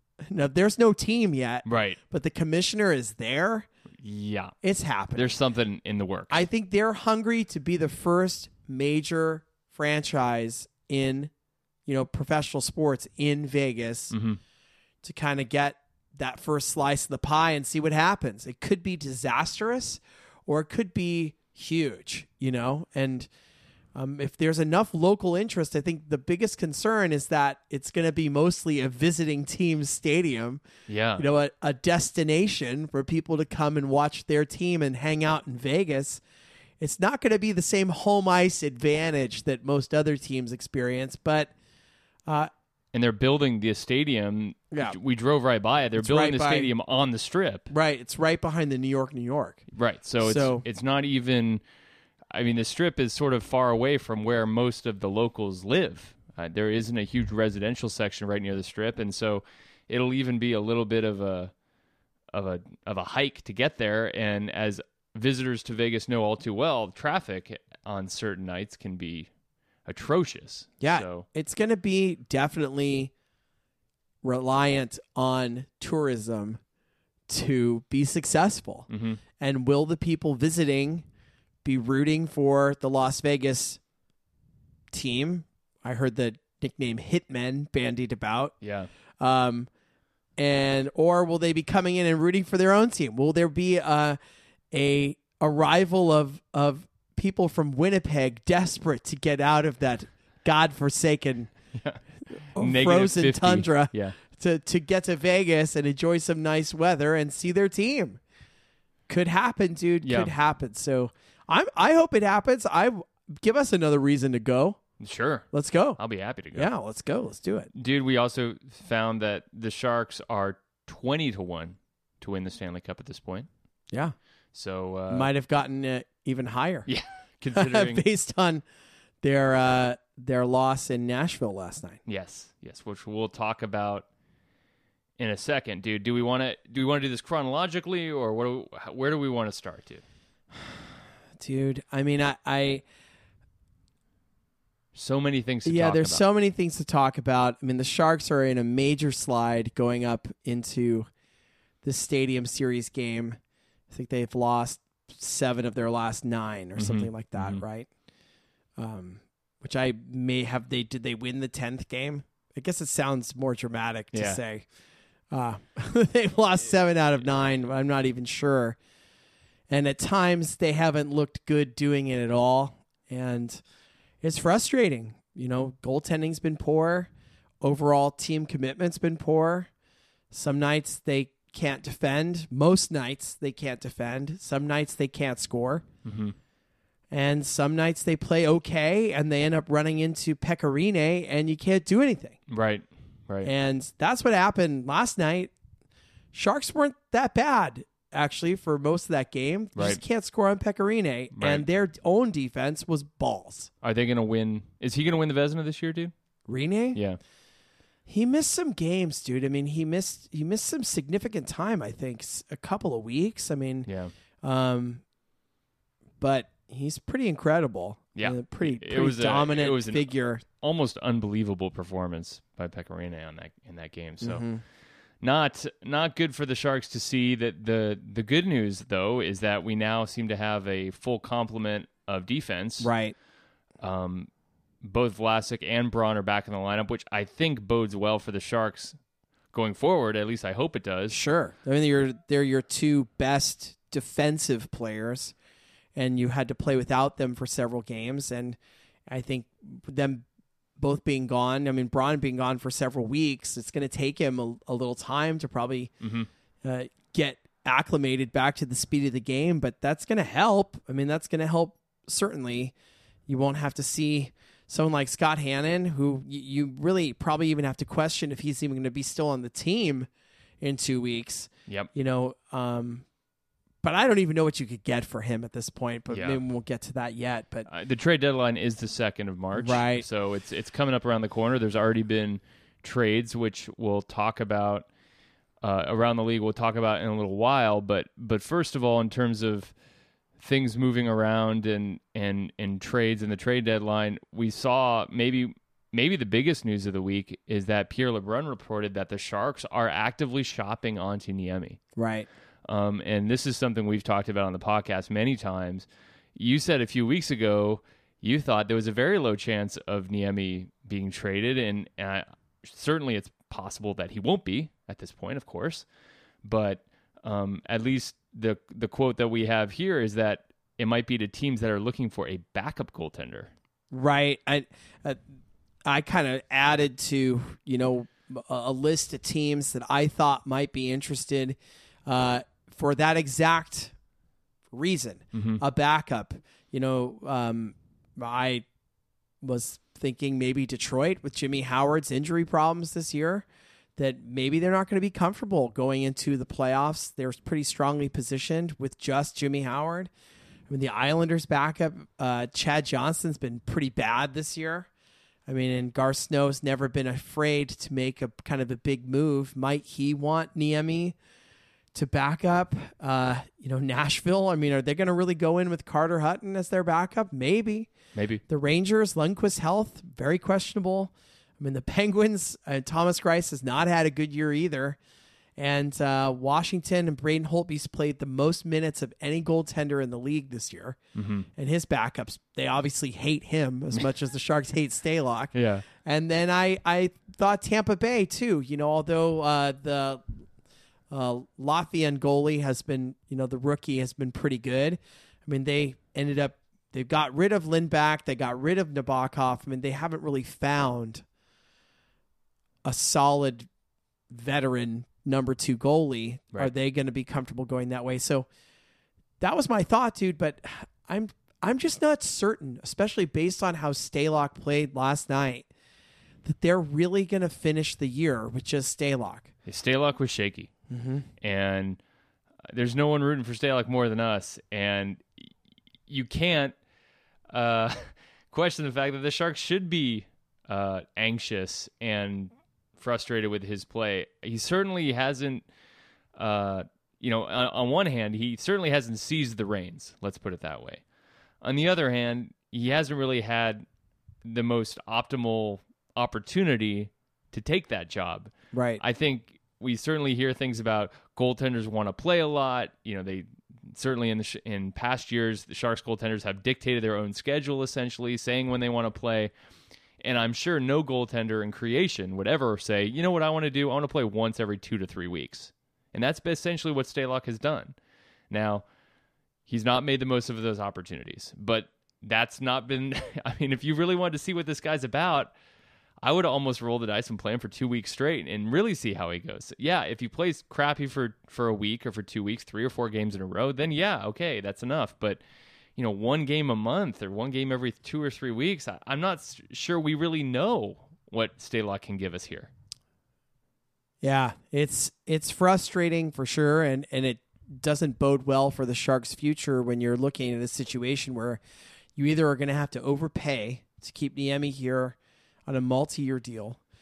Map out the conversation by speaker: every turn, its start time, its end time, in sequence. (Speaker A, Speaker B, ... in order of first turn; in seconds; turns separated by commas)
Speaker A: 0.2-3.7, Speaker B: 1.6-2.0, Speaker B: 4.0-4.5, Speaker A: 4.6-5.3, Speaker B: 5.2-6.5, Speaker A: 6.3-11.3, Speaker A: 11.9-14.1, Speaker B: 14.1-14.4, Speaker A: 15.0-23.3, Speaker A: 23.9-30.6, Speaker B: 30.9-31.3, Speaker A: 31.2-36.2, Speaker A: 36.8-41.5, Speaker A: 42.3-42.5, Speaker B: 42.9-47.7, Speaker A: 44.7-45.0, Speaker A: 46.0-46.7, Speaker A: 47.7-49.6, Speaker B: 49.7-51.6, Speaker A: 50.2-50.6, Speaker B: 52.3-61.5, Speaker B: 62.3-69.3, Speaker B: 69.9-71.3, Speaker A: 70.8-73.1, Speaker A: 74.2-76.6, Speaker A: 77.3-78.9, Speaker B: 78.9-79.2, Speaker A: 79.4-81.1, Speaker A: 81.6-83.8, Speaker A: 84.9-88.6, Speaker B: 88.6-88.9, Speaker A: 89.2-89.7, Speaker A: 90.4-94.2, Speaker A: 94.7-101.5, Speaker B: 102.5-104.2, Speaker A: 102.5-108.2, Speaker A: 109.1-114.8, Speaker B: 110.0-110.3, Speaker B: 115.0-115.5, Speaker A: 115.5-116.0, Speaker B: 116.0-116.7, Speaker A: 116.5-117.7, Speaker B: 117.8-123.5, Speaker B: 124.5-125.3, Speaker A: 125.1-126.9, Speaker B: 126.9-128.0, Speaker A: 127.5-128.6, Speaker A: 129.2-132.0, Speaker B: 132.1-134.1, Speaker B: 135.2-140.0, Speaker A: 141.4-142.8, Speaker B: 144.9-146.2, Speaker A: 145.7-151.1, Speaker A: 151.8-153.4, Speaker A: 153.9-157.9, Speaker B: 156.8-157.6, Speaker A: 158.8-164.7, Speaker B: 164.1-164.4, Speaker A: 165.3-168.8, Speaker A: 169.7-173.6, Speaker A: 174.2-177.1, Speaker A: 177.6-179.7, Speaker A: 180.3-185.8, Speaker B: 186.1-186.3, Speaker A: 187.1-192.4, Speaker B: 192.5-193.5, Speaker A: 193.4-195.5, Speaker A: 196.3-203.7, Speaker B: 199.8-200.0, Speaker B: 201.3-201.7, Speaker B: 203.8-206.1, Speaker A: 206.5-207.0, Speaker B: 206.9-207.2, Speaker A: 208.1-213.9, Speaker B: 213.9-214.1, Speaker A: 214.4-215.0, Speaker A: 216.2-220.4, Speaker B: 218.2-224.5, Speaker A: 224.2-224.6, Speaker B: 225.2-232.9, Speaker A: 232.8-233.2, Speaker B: 233.8-234.3, Speaker B: 234.8-239.0, Speaker B: 239.5-241.2, Speaker A: 241.1-245.3, Speaker A: 245.9-250.2, Speaker A: 250.8-255.9, Speaker B: 256.0-256.3, Speaker A: 256.6-262.7, Speaker A: 263.3-270.1, Speaker A: 270.6-273.1, Speaker A: 273.8-277.7, Speaker B: 276.1-276.4, Speaker B: 277.7-284.9, Speaker A: 279.5-280.1, Speaker B: 285.6-289.7, Speaker B: 290.4-301.8, Speaker A: 302.0-302.3, Speaker B: 302.7-315.9, Speaker B: 316.4-323.5, Speaker A: 323.9-325.2, Speaker A: 325.9-333.9, Speaker A: 334.7-338.6, Speaker B: 335.3-335.6, Speaker A: 339.4-350.1, Speaker A: 350.7-354.9, Speaker A: 355.5-361.2, Speaker A: 361.9-367.9, Speaker B: 368.1-368.4, Speaker A: 368.5-375.0, Speaker A: 375.6-381.0, Speaker B: 381.2-381.5, Speaker A: 381.6-390.2, Speaker B: 385.5-385.9, Speaker A: 391.1-401.2, Speaker A: 402.8-403.7, Speaker A: 404.3-408.5, Speaker A: 409.4-415.7, Speaker A: 416.4-419.5, Speaker B: 419.7-420.7, Speaker A: 420.9-421.3, Speaker B: 421.4-422.0, Speaker B: 422.7-425.5, Speaker B: 426.1-426.8, Speaker B: 427.5-435.6, Speaker B: 436.4-441.0, Speaker B: 441.6-443.9, Speaker B: 444.4-459.5, Speaker A: 448.7-449.0, Speaker B: 460.2-467.9, Speaker B: 468.5-468.9, Speaker B: 469.7-475.5, Speaker B: 476.2-485.4, Speaker B: 486.0-492.7, Speaker A: 494.2-501.6, Speaker A: 502.2-505.2, Speaker A: 505.7-506.8